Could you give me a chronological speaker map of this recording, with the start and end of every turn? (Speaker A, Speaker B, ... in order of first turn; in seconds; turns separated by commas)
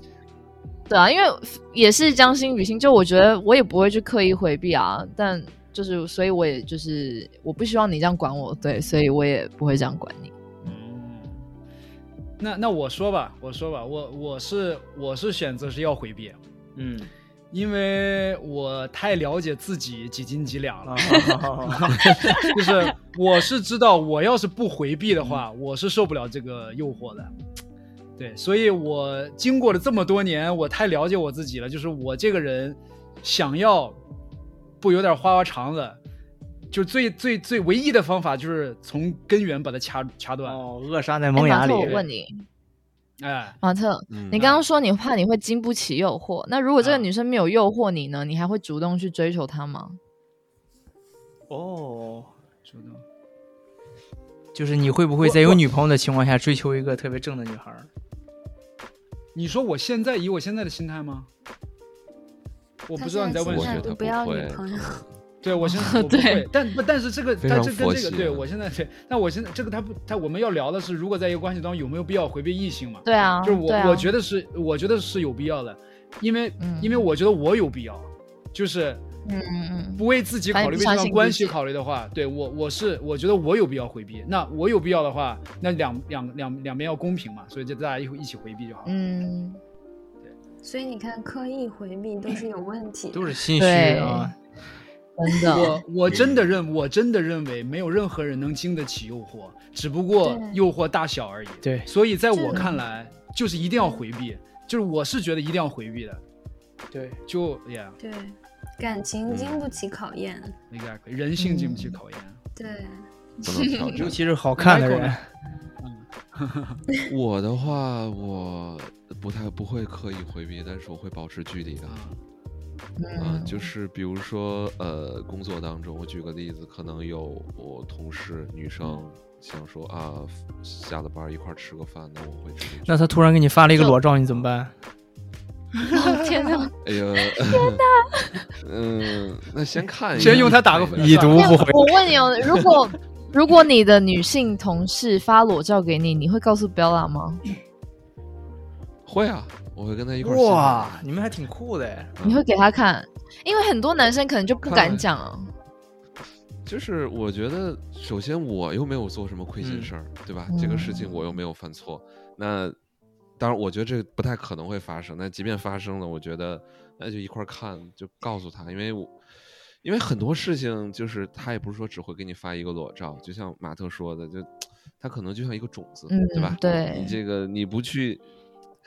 Speaker A: 0.9-10.3, Speaker B: 10.6-11.4, Speaker B: 12.4-16.4, Speaker C: 16.8-17.1, Speaker B: 17.5-27.3, Speaker C: 20.8-21.8, Speaker D: 22.0-22.3, Speaker B: 28.2-34.0, Speaker B: 34.8-36.0, Speaker B: 36.7-40.6, Speaker C: 40.4-42.0, Speaker A: 41.3-42.4, Speaker B: 41.6-42.1, Speaker B: 43.2-43.6, Speaker A: 43.6-50.0, Speaker D: 44.1-44.6, Speaker B: 46.8-47.1, Speaker C: 51.5-52.3, Speaker B: 52.6-53.0, Speaker C: 54.5-57.9, Speaker B: 55.2-55.6, Speaker B: 59.3-61.3, Speaker B: 62.9-64.0, Speaker E: 63.0-65.0, Speaker D: 63.4-65.1, Speaker B: 65.4-79.0, Speaker A: 65.6-66.5, Speaker D: 67.4-68.5, Speaker A: 73.0-74.1, Speaker A: 76.6-77.1, Speaker A: 79.2-81.6, Speaker B: 80.0-88.9, Speaker A: 88.8-89.6, Speaker E: 90.6-93.3, Speaker C: 93.1-94.3, Speaker A: 93.6-94.3, Speaker A: 95.2-95.8, Speaker B: 95.5-106.2, Speaker D: 96.0-96.5, Speaker E: 100.2-100.6, Speaker C: 101.6-101.9, Speaker E: 102.3-102.8, Speaker C: 106.9-107.2, Speaker B: 107.3-108.0, Speaker E: 108.0-110.5, Speaker D: 109.3-109.8, Speaker B: 110.7-112.4, Speaker A: 111.4-112.0, Speaker E: 112.6-113.0, Speaker D: 113.4-114.2, Speaker C: 113.9-115.2, Speaker B: 114.6-115.2, Speaker B: 115.8-116.8, Speaker D: 117.1-122.1, Speaker B: 121.8-122.2, Speaker A: 123.0-123.7, Speaker D: 123.2-133.1, Speaker C: 132.8-134.7, Speaker A: 135.9-136.8, Speaker D: 136.8-137.8, Speaker A: 137.5-138.4, Speaker D: 138.6-141.4, Speaker B: 140.2-141.6, Speaker C: 140.2-141.9, Speaker A: 141.3-147.4, Speaker D: 149.1-151.0, Speaker C: 150.2-152.1, Speaker D: 152.2-152.5, Speaker A: 152.2-155.5, Speaker D: 154.6-155.1, Speaker D: 156.7-162.8, Speaker C: 159.6-159.9, Speaker A: 160.5-161.2, Speaker D: 163.4-169.2, Speaker D: 169.8-178.2, Speaker A: 176.1-177.2